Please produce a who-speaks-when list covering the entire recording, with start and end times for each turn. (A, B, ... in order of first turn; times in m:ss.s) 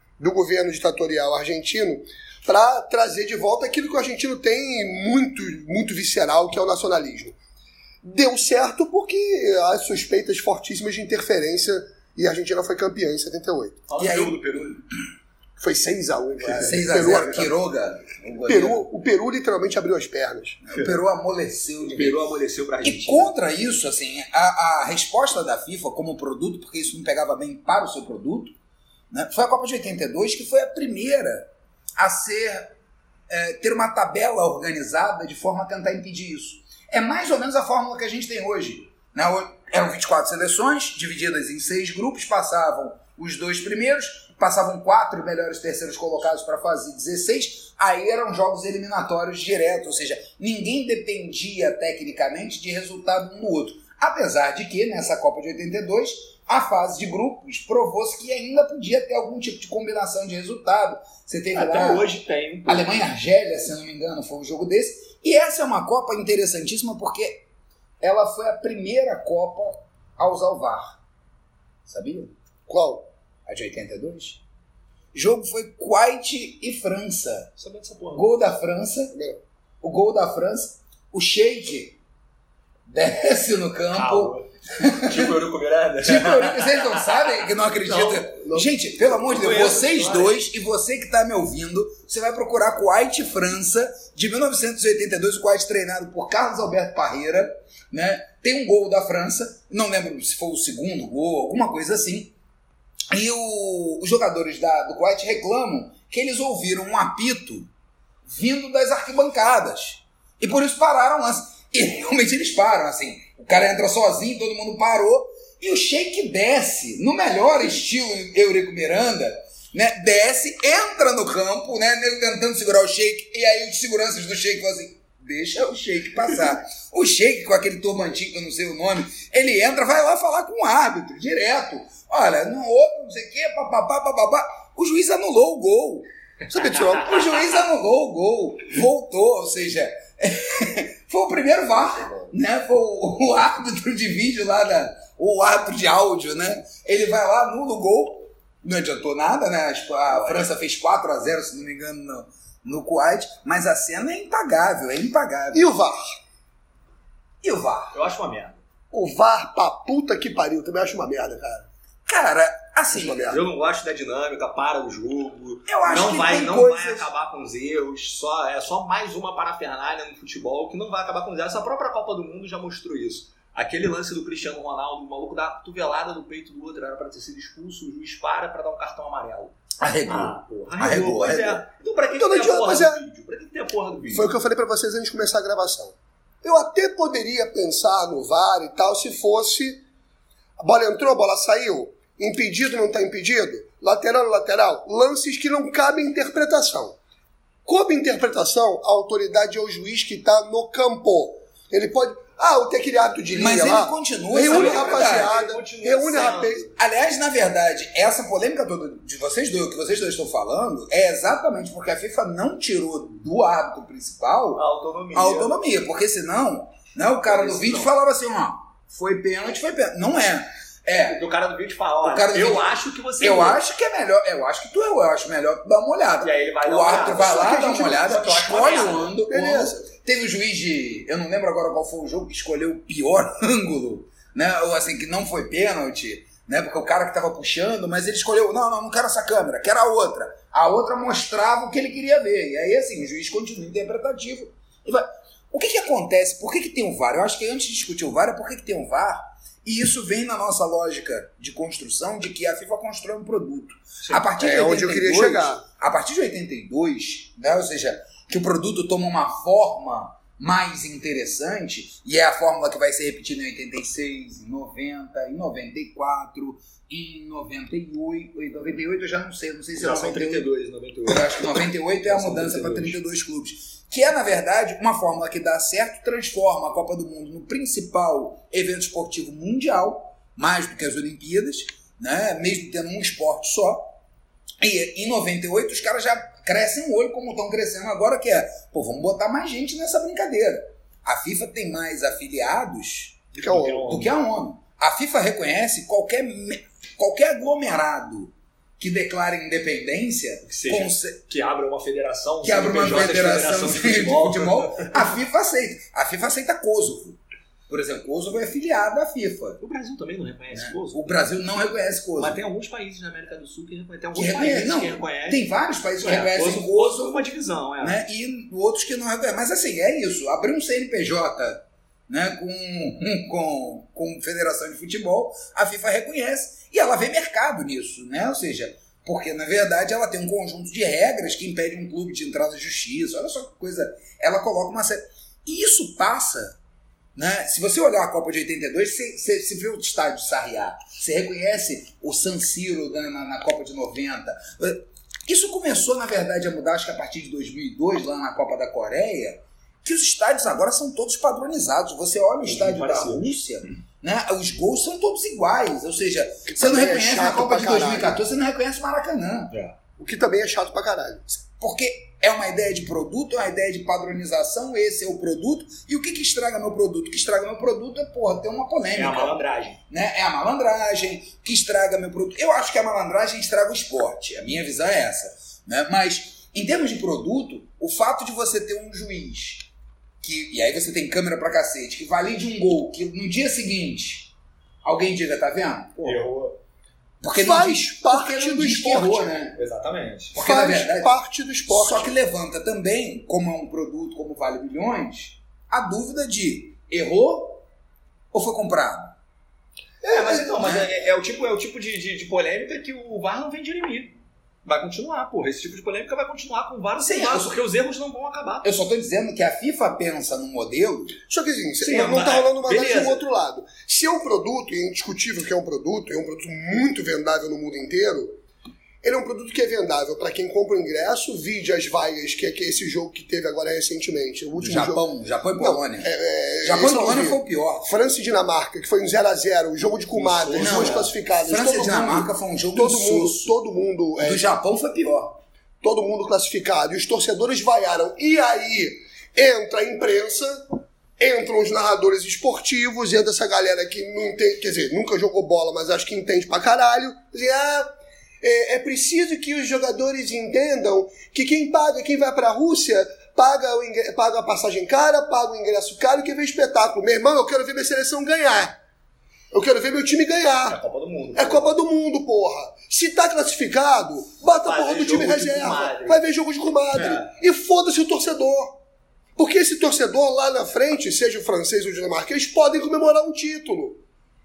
0:00.2-0:07.4 A
0:08.0-0:13.8 A
0:13.9-0:14.8 B
0:14.0-0:14.6 C
0:15.6-0:17.5 A
0:16.5-0:18.8 C
0:18.4-0:20.6 A
0:20.6-0:22.2 C
0:21.9-0:23.3 B
0:22.8-0:28.5 C
0:29.1-0:32.7 C
0:33.3-1:02.1 C
1:01.5-1:03.0 B
1:02.6-1:07.4 C
1:08.0-1:11.0 C
1:11.8-1:12.3 C
1:12.7-1:13.1 A
1:13.5-1:14.4 C
1:15.1-1:17.5 C
1:17.6-1:18.3 B
1:18.1-1:19.1 C
1:19.1-1:19.4 A
1:19.8-1:22.0 C
1:22.9-1:25.3 C
1:23.9-1:27.3 B
1:26.0-1:42.3 C
1:27.8-1:28.3 B
1:28.4-1:28.7 A
1:29.2-1:30.4 B
1:43.1-1:47.7 C
1:48.2-2:16.1 C
2:16.5-2:17.4 A
2:16.9-2:35.7 C
2:30.1-2:30.4 B
2:35.5-2:36.2 A
2:37.4-2:37.9 C
2:37.9-2:38.6 B
2:38.9-2:41.7 A
2:42.0-2:43.3 C
2:42.9-2:43.4 A
2:43.3-3:04.3 B
2:45.7-2:47.1 C
2:59.8-3:01.6 C
3:02.1-3:03.0 A
3:04.1-3:09.8 A
3:10.6-3:17.0 A
3:17.6-3:26.7 A
3:23.3-3:25.4 C
3:24.4-3:26.7 B
3:26.8-3:34.6 C
3:34.5-3:35.5 B
3:35.1-3:41.2 C
3:37.2-3:37.9 B
3:41.1-3:43.6 B
3:42.0-3:42.7 C
3:43.2-4:30.5 C
3:46.2-3:49.1 B
3:47.1-3:48.1 A
3:49.3-3:49.9 A
4:14.3-4:15.6 A
4:29.8-4:33.0 B
4:31.0-4:43.9 C
4:44.6-4:53.2 C
4:53.3-4:54.1 B
4:53.4-4:53.9 A
4:53.9-5:01.2 C
5:00.4-5:05.0 B
5:02.4-5:07.2 C
5:07.7-5:09.6 C
5:09.6-5:11.0 B
5:10.5-5:12.4 C
5:12.2-5:15.4 B
5:14.1-5:17.2 C
5:16.0-5:18.0 B
5:17.8-5:36.6 C
5:37.2-5:59.5 C
5:52.4-5:53.3 B
5:56.5-5:58.3 A
6:00.0-6:01.4 A
6:01.6-6:09.4 C
6:08.9-6:09.8 B
6:09.9-6:19.7 C
6:20.2-6:24.3 C
6:24.8-6:26.2 C
6:26.0-6:26.6 B
6:27.2-6:29.6 C
6:27.3-6:29.3 A
6:29.5-6:30.4 B
6:30.3-6:31.1 C
6:30.4-6:32.1 A
6:31.7-6:37.6 C
6:38.3-6:39.1 C
6:40.0-6:40.6 A
6:40.1-6:48.7 B
6:40.6-6:40.9 C
6:47.0-6:47.5 C
6:48.6-6:51.2 C
6:51.3-6:58.4 A
6:51.8-6:53.2 B
6:59.0-7:14.5 A
7:04.6-7:06.1 C
7:06.6-7:07.9 C
7:10.1-7:11.1 B
7:10.5-7:13.5 C
7:14.2-7:15.4 C
7:15.8-7:38.8 A
7:39.5-7:40.8 A
7:40.7-7:41.8 B
7:41.3-7:48.8 A
7:44.5-7:46.2 B
7:46.9-7:47.3 B
7:49.4-7:54.0 A